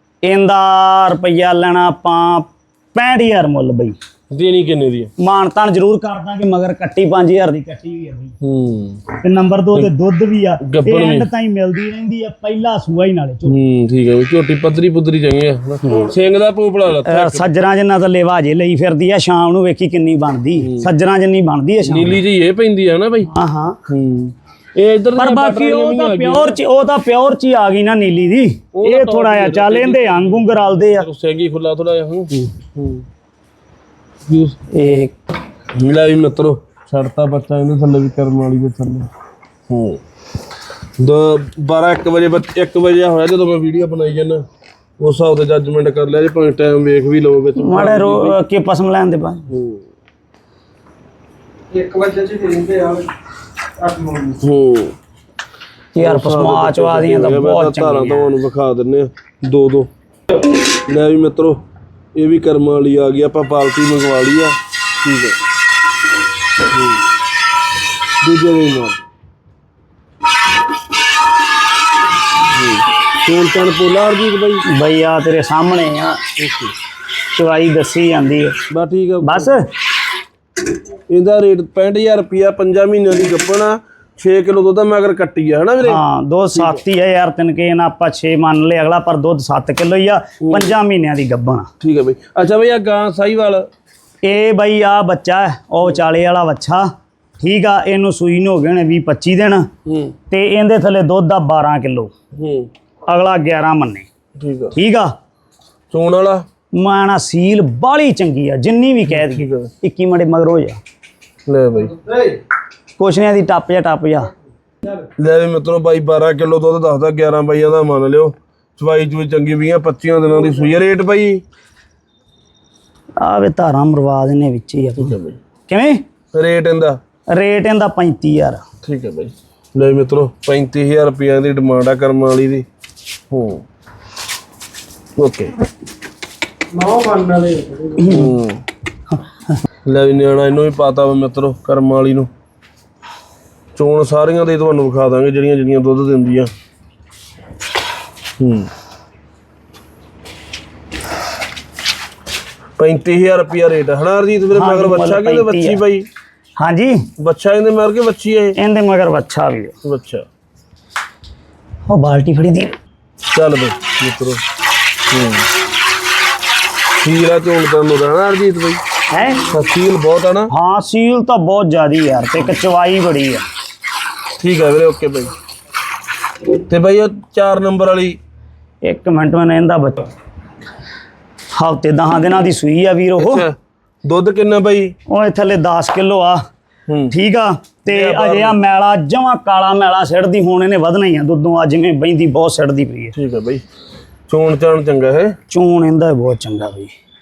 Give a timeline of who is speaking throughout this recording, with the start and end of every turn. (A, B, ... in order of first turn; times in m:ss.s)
0:00.2-0:04.0 A
0:04.3-0:05.1 B
0:05.2-0:08.3 A
0:08.4-0:09.0 B
0:09.2-0:13.5 A
0:10.6-0:11.3 B
0:13.4-0:17.5 B
0:15.8-0:16.1 A
0:17.0-0:22.2 A
0:20.6-0:20.9 B
0:21.8-0:23.3 B
0:23.3-0:23.8 A
0:23.9-0:26.6 B
0:25.2-0:31.0 A
0:28.7-0:33.0 B
0:34.3-0:35.0 B
0:34.7-0:35.1 A
0:35.7-0:39.1 B
0:39.7-0:40.0 B
0:41.0-0:44.4 B
0:45.0-0:48.4 B
0:47.6-0:49.5 A
0:49.5-0:49.8 B
0:51.7-0:53.1 C
0:53.8-0:54.3 C
0:54.4-0:55.0 B
0:55.9-0:58.4 A
0:56.0-0:59.9 B
1:00.9-1:01.6 B
1:02.1-1:05.4 B
1:06.7-1:07.0 B
1:08.2-1:09.0 B
1:12.5-1:14.6 B
1:14.7-1:16.2 A
1:16.4-1:16.7 B
1:17.3-1:18.6 A
1:18.7-1:19.5 B
1:19.2-1:19.7 A
1:21.1-1:26.0 B
1:25.8-1:31.7 A
1:26.5-1:26.8 B
1:30.4-1:30.7 B
1:31.8-1:33.7 B
1:34.2-1:36.8 A
1:37.4-1:39.7 A
1:39.8-1:40.1 B
1:40.3-1:42.1 A
1:42.4-1:42.7 B
1:43.1-1:44.1 A
1:44.4-1:44.8 B
1:44.7-1:45.1 A
1:45.9-1:46.4 B
1:46.8-1:50.8 A
1:49.1-1:49.7 B
1:51.5-1:52.1 B
1:53.0-1:54.3 A
1:54.8-2:01.4 B
2:03.2-2:05.1 A
2:05.0-2:05.4 B
2:05.7-2:06.0 A
2:06.3-2:07.0 B
2:07.3-2:08.6 A
2:08.8-2:12.6 B
2:13.3-2:13.6 B
2:15.2-2:15.5 B
2:16.7-2:18.0 C
2:18.0-2:18.3 A
2:18.0-2:18.6 B
2:19.8-2:22.3 B
2:23.7-2:26.5 B
2:28.4-2:28.7 B
2:32.8-2:36.1 B
2:34.5-2:35.8 A
2:36.6-2:37.1 A
2:37.2-2:38.6 B
2:38.6-2:39.7 A
2:39.8-2:40.2 B
2:41.9-2:42.7 A
2:43.3-2:44.4 B
2:45.1-2:45.5 B
2:47.0-2:48.8 B
2:49.1-2:49.4 A
2:49.5-2:50.5 B
2:50.5-2:53.4 A
2:54.4-2:55.3 B
2:56.5-2:58.2 B
2:58.8-3:00.1 A
3:01.6-3:03.4 A
3:03.2-3:04.9 B
3:05.1-3:06.4 A
3:06.9-3:07.2 B
3:07.1-3:13.1 A
3:07.9-3:08.6 B
3:13.1-3:13.6 B
3:14.3-3:15.4 B
3:15.5-3:16.9 A